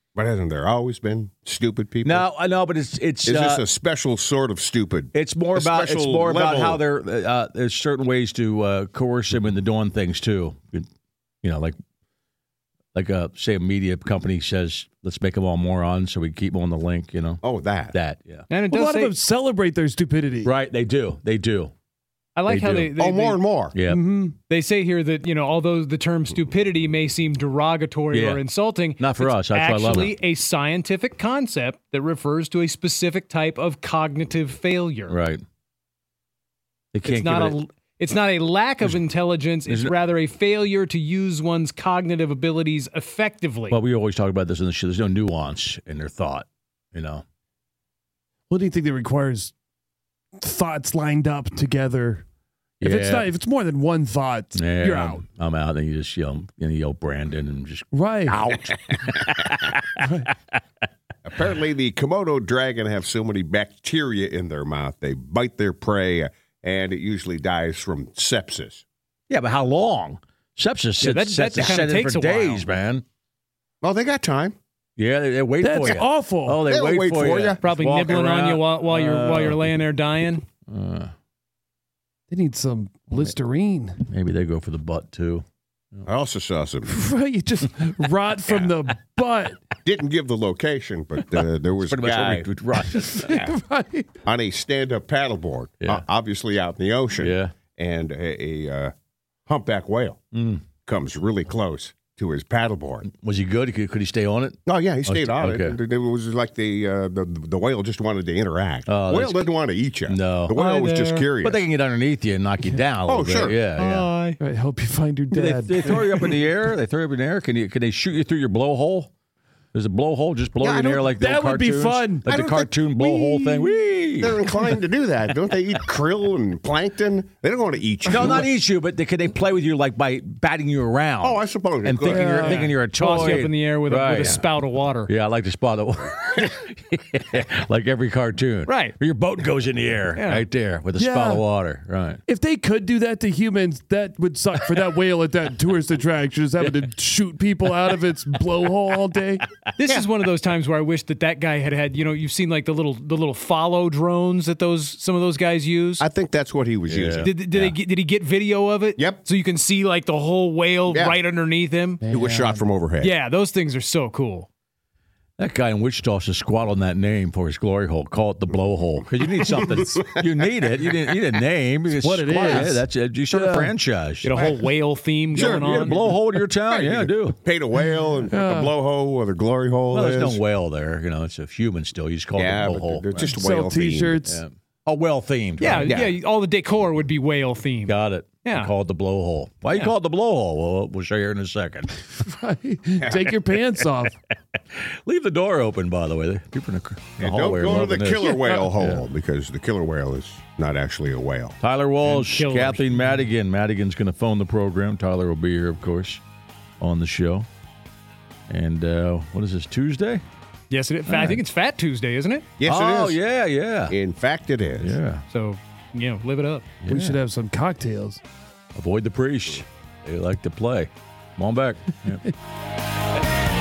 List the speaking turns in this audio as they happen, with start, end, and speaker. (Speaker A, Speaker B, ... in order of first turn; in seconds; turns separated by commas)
Speaker A: 0.1-2.2, Speaker B: 2.0-3.6, Speaker A: 3.2-6.8, Speaker B: 5.1-10.9, Speaker B: 11.4-11.8, Speaker B: 12.9-18.5, Speaker A: 17.4-17.9, Speaker C: 18.5-19.1, Speaker D: 18.7-20.5, Speaker B: 20.4-21.7, Speaker C: 22.4-23.4, Speaker B: 22.4-22.9, Speaker A: 23.0-23.7, Speaker B: 23.7-24.0, Speaker D: 23.9-24.4, Speaker C: 24.5-35.2, Speaker B: 28.1-28.4, Speaker B: 29.0-30.2, Speaker B: 35.1-35.4, Speaker B: 36.9-37.6, Speaker C: 37.0-43.8, Speaker B: 39.7-39.9, Speaker B: 43.7-47.2, Speaker D: 48.5-49.5, Speaker D: 50.4-52.2, Speaker B: 52.8-53.3, Speaker D: 52.8-55.2, Speaker B: 54.5-60.3, Speaker D: 57.9-58.4, Speaker D: 60.0-60.3, Speaker A: 61.2-68.8, Speaker B: 69.3-73.0, Speaker C: 71.0-72.6, Speaker A: 73.8-74.5, Speaker B: 75.0-79.7, Speaker D: 75.6-76.6, Speaker A: 76.6-77.6, Speaker C: 77.6-80.4, Speaker B: 80.7-81.1, Speaker D: 82.3-84.0, Speaker B: 84.1-85.4, Speaker A: 86.0-86.9, Speaker D: 86.8-89.6, Speaker A: 89.8-92.5, Speaker B: 91.8-93.4, Speaker D: 93.0-94.1, Speaker A: 93.1-93.5, Speaker A: 94.2-98.9, Speaker B: 97.2-97.5, Speaker A: 99.5-100.2, Speaker B: 100.3-100.6, Speaker A: 100.8-103.1, Speaker B: 103.1-105.8, Speaker A: 104.7-111.6, Speaker B: 108.9-109.5, Speaker B: 110.1-110.6, Speaker C: 110.5-111.3, Speaker B: 111.4-114.1, Speaker A: 113.0-113.6, Speaker C: 113.8-114.4, Speaker D: 114.4-116.0, Speaker B: 115.3-119.1, Speaker B: 119.7-124.7, Speaker A: 120.6-121.1, Speaker D: 121.1-122.2, Speaker A: 122.3-122.8, Speaker D: 123.1-123.5, Speaker A: 124.2-128.5, Speaker B: 128.1-134.4, Speaker A: 131.2-132.5, Speaker D: 132.1-132.7, Speaker C: 132.4-135.1, Speaker B: 135.1-142.2, Speaker C: 138.7-138.9, Speaker C: 140.1-140.4, Speaker D: 141.0-141.4, Speaker D: 142.3-149.4, Speaker C: 149.8-156.0, Speaker A: 156.0-157.7, Speaker B: 156.9-157.6, Speaker C: 157.2-162.0, Speaker A: 159.0-159.2, Speaker A: 160.9-161.2, Speaker D: 162.0-162.6, Speaker A: 162.1-163.1, Speaker C: 163.0-164.5, Speaker B: 165.4-174.4, Speaker A: 169.4-170.5, Speaker D: 172.0-173.7, Speaker C: 174.2-176.0, Speaker A: 175.3-180.4, Speaker B: 175.3-177.4, Speaker D: 178.3-178.7, Speaker B: 179.9-183.1, Speaker A: 182.3-184.2, Speaker D: 183.2-184.4, Speaker B: 184.2-186.0, Speaker C: 185.6-188.7, Speaker A: 185.8-186.1, Speaker B: 187.8-191.9, Speaker D: 192.1-194.1, Speaker B: 194.7-199.0, Speaker A: 197.2-201.6, Speaker D: 198.2-198.7, Speaker B: 201.6-206.2, Speaker C: 202.0-202.9, Speaker B: 206.8-207.5, Speaker B: 208.5-210.2, Speaker C: 210.7-212.5, Speaker B: 211.1-211.4, Speaker A: 212.6-213.2, Speaker B: 212.6-213.9, Speaker A: 213.9-214.9, Speaker B: 214.8-215.2, Speaker C: 215.3-216.7, Speaker B: 216.8-217.2, Speaker D: 216.9-218.2, Speaker B: 218.7-222.3